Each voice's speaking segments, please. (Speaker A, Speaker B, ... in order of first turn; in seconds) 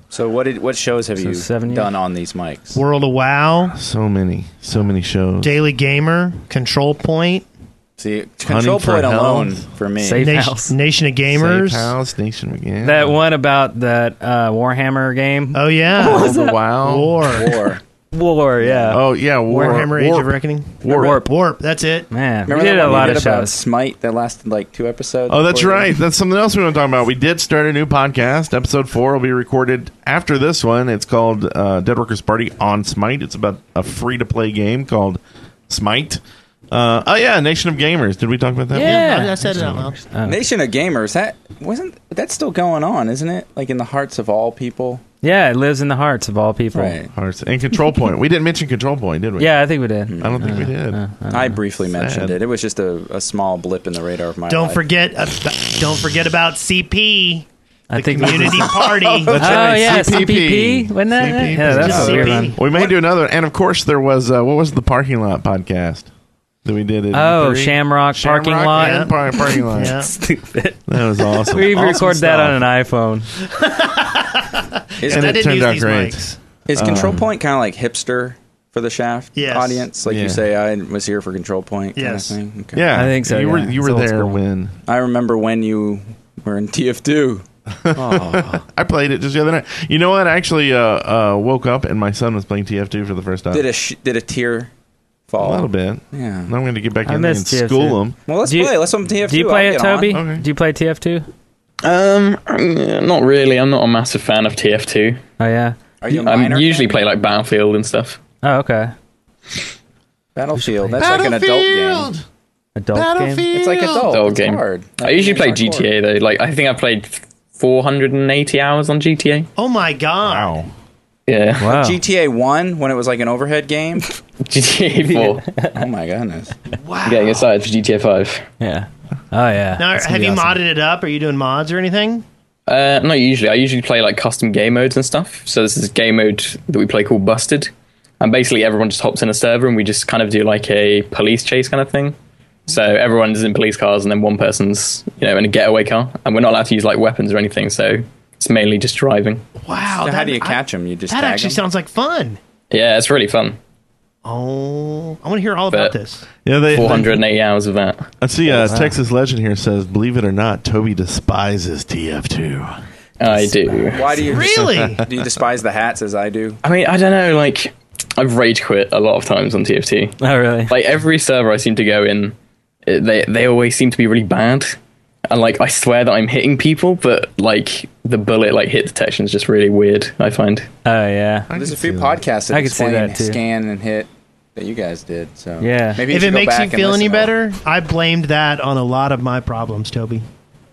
Speaker A: 0.1-2.8, 8.0-10.2, 17.3-17.8, 18.6-19.0, 22.4-25.9, 40.2-45.0, 46.7-47.1, 50.1-50.6, 51.3-54.8, 58.8-60.1, 75.0-75.4, 76.7-82.9, 84.8-88.6, 93.5-94.7, 95.3-96.5, 98.2-100.2, 106.0-107.1, 110.3-112.1, 113.5-115.9, 121.7-124.1, 125.6-126.5, 149.9-151.6, 163.9-166.6, 181.5-187.3
Speaker B: 1.2-1.9, 10.0-10.7, 12.8-16.6, 18.1-19.0, 20.9-21.3, 22.1-23.6, 38.7-40.4, 45.2-47.0, 49.4-51.6, 57.9-58.8, 59.3-62.5, 67.1-73.3, 82.9-84.4, 97.0-101.3, 105.4-105.8, 108.4-108.9, 110.6-111.0, 112.8-113.5, 121.6-122.0, 125.0-125.8, 128.6-130.6, 158.5-158.9, 163.3-164.2, 170.2-170.7, 180.8-181.5, 182.5-183.4, 185.6-186.0
Speaker C: 2.7-3.8, 5.4-7.5, 10.2-11.9, 15.5-17.7, 19.5-22.1, 38.8-40.0, 54.5-59.5, 61.6-62.9, 68.7-69.1, 69.7-70.1, 73.5-76.4, 79.3-79.9, 81.9-82.4, 119.6-120.5, 126.7-127.5, 129.8-132.2, 149.6-152.4, 154.2-156.2, 164.3-165.0, 186.1-190.2
Speaker D: 3.7-5.6, 8.4-9.7, 11.3-13.2, 16.0-17.3, 18.9-21.2, 25.3-39.9, 47.1-49.6, 50.2-51.0, 51.9-52.4, 59.2-66.1, 66.6-70.0, 70.9-72.6, 75.0-77.3, 80.1-80.4, 82.7-84.8, 87.7-93.7, 95.4-98.2, 100.1-100.4, 111.0-112.2, 112.9-114.1, 120.2-120.7, 156.4-157.2, 158.2-162.7, 164.6-165.2, 181.5-182.2
Speaker E: 101.8-105.2, 106.1-108.2, 114.1-119.5, 121.3-121.7, 124.4-125.4, 127.0-128.4, 132.7-142.1, 142.7-149.4, 152.7-153.6, 156.7-158.1, 163.2-164.1, 166.6-172.3, 172.8-180.7